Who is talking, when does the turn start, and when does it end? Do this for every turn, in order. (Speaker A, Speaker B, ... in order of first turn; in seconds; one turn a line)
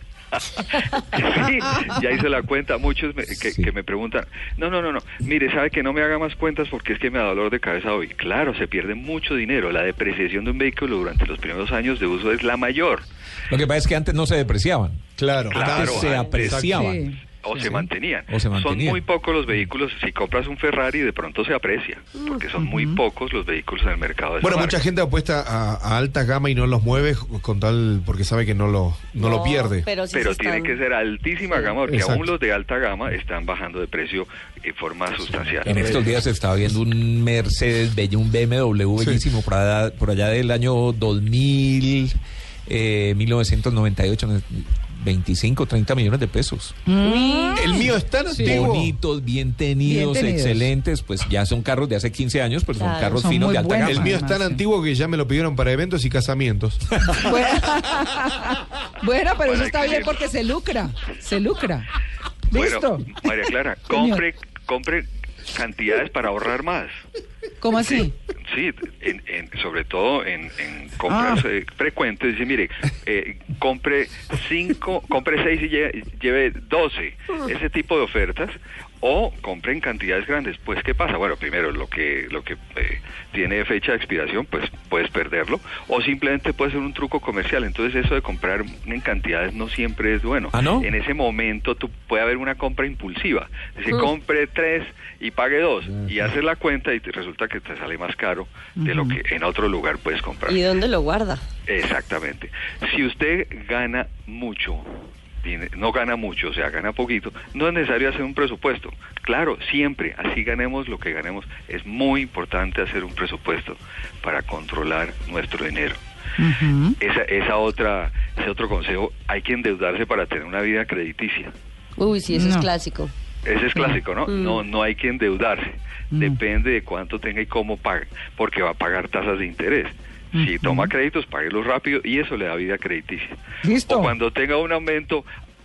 Speaker A: 0.3-13.0
Speaker B: 13.5-17.0
Speaker C: 15.2-16.9
Speaker A: 15.5-16.2
Speaker D: 16.0-16.5
Speaker E: 16.7-17.8
Speaker A: 17.4-24.8
Speaker B: 18.3-19.0
Speaker E: 22.6-23.0
Speaker C: 24.4-29.9
Speaker D: 29.2-30.8
Speaker A: 30.1-36.1
Speaker D: 31.5-31.8
Speaker C: 31.9-32.3
Speaker C: 35.3-36.1
Speaker B: 35.6-42.1
Speaker C: 39.0-39.3
Speaker B: 42.7-46.8
Speaker E: 46.9-48.8
Speaker D: 47.0-47.8
Speaker C: 47.6-49.0
Speaker B: 48.3-54.2
Speaker E: 49.8-50.7
Speaker D: 52.7-53.4
Speaker E: 53.2-54.6
Speaker C: 53.8-56.8
Speaker B: 57.0-57.3
Speaker E: 57.2-61.9
Speaker A: 59.4-60.2
Speaker E: 62.5-63.4
Speaker A: 62.5-67.0
Speaker E: 63.9-64.2
Speaker E: 67.6-68.1
Speaker A: 67.8-100.6
Speaker E: 71.1-71.4
Speaker B: 90.5-90.9
Speaker E: 98.8-99.2
Speaker D: 100.5-101.5
Speaker A: 101.7-116.0
Speaker E: 116.4-117.0
Speaker A: 117.0-121.5
Speaker D: 122.0-123.1
Speaker E: 122.3-122.7
Speaker A: 123.5-135.3
Speaker E: 123.8-124.0
Speaker D: 124.3-124.6
Speaker E: 126.1-126.4
Speaker E: 130.3-130.9
Speaker E: 133.6-134.1